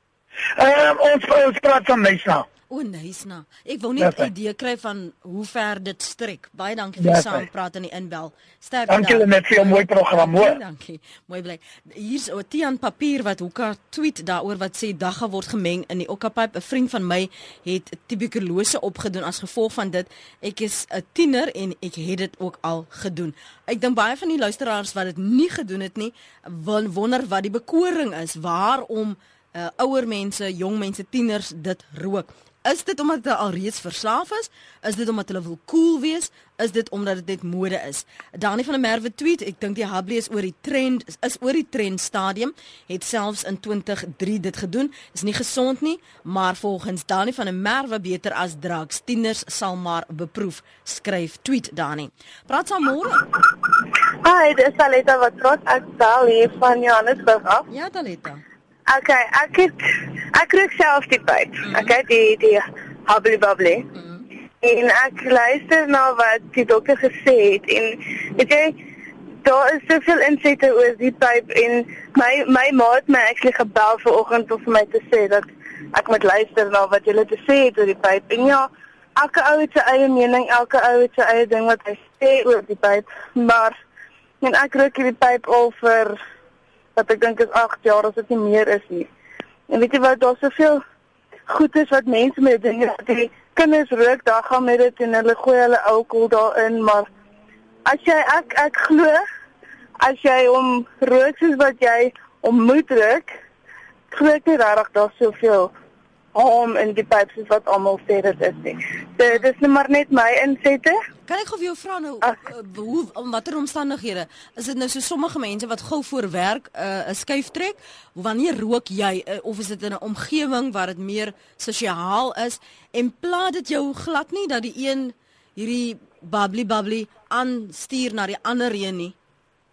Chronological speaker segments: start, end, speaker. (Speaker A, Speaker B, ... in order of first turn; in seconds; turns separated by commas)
Speaker A: 0.6-2.5, Speaker B: 2.7-53.3, Speaker A: 4.0-4.3, Speaker A: 7.0-7.5, Speaker A: 8.9-10.6, Speaker C: 54.2-57.7, Speaker B: 57.7-58.4, Speaker C: 58.9-59.8, Speaker C: 60.3-63.9, Speaker B: 61.6-62.0, Speaker B: 64.0-64.2, Speaker C: 64.6-68.8, Speaker C: 69.4-83.8, Speaker C: 84.4-86.2, Speaker C: 87.0-89.1, Speaker C: 89.7-90.8, Speaker C: 91.5-97.1, Speaker C: 97.9-99.2, Speaker C: 100.0-103.3, Speaker C: 104.1-105.7, Speaker C: 106.3-111.0, Speaker B: 111.3-129.1